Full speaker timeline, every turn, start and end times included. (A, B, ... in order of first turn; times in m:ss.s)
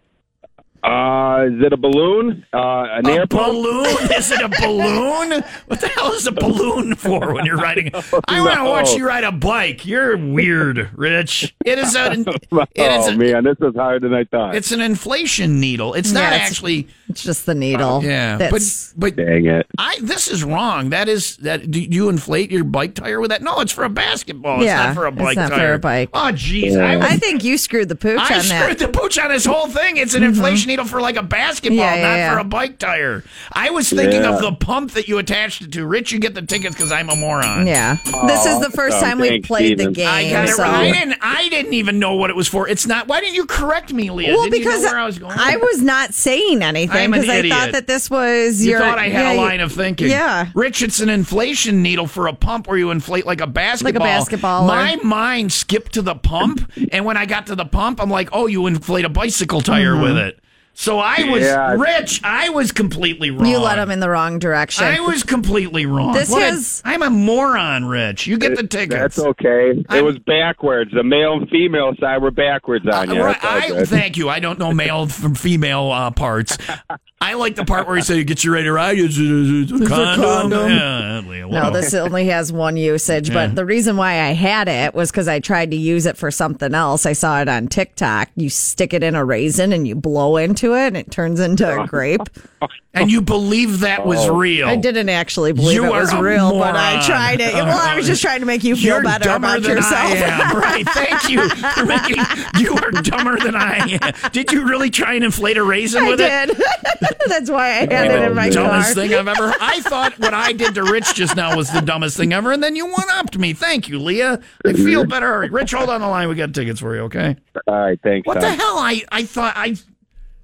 0:00.8-0:03.6 A
0:03.0-0:13.3 B
0:08.1-0:09.0 A
0:11.9-0:14.6 A
0:14.5-0:16.9 B
0:16.0-0:18.9 C
0:17.9-0:19.2 B
0:19.2-0:19.7 A
0:19.8-0:27.2 B
0:24.5-0:26.1 C
0:26.6-0:27.1 A
0:27.0-0:28.8 C
0:28.2-0:37.7 B
0:30.2-0:30.6 C
0:31.7-0:32.4 C
0:33.9-0:34.5 A
0:37.6-0:41.0 C
0:38.1-0:41.0 A
0:40.0-0:45.6 B
0:44.2-0:50.5 C
0:46.9-0:47.8 B
0:48.6-1:03.9 B
0:53.8-0:54.9 C
0:59.7-1:00.2 C
1:01.2-1:01.9 A
1:03.4-1:05.1 C
1:04.7-1:09.2 B
1:06.1-1:06.8 C
1:08.4-1:13.9 A
1:09.9-1:10.1 B
1:12.9-1:21.9 B
1:19.8-1:20.8 C
1:21.5-1:32.3 C
1:23.2-1:23.5 B
1:32.9-1:34.8 B
1:34.0-1:34.4 A
1:34.6-1:42.7 C
1:35.6-1:46.4 B
1:46.0-1:51.7 C
1:47.8-1:48.9 A
1:47.9-1:57.4 B
1:54.6-1:55.1 A
1:57.7-1:58.6 A
1:58.2-1:59.8 B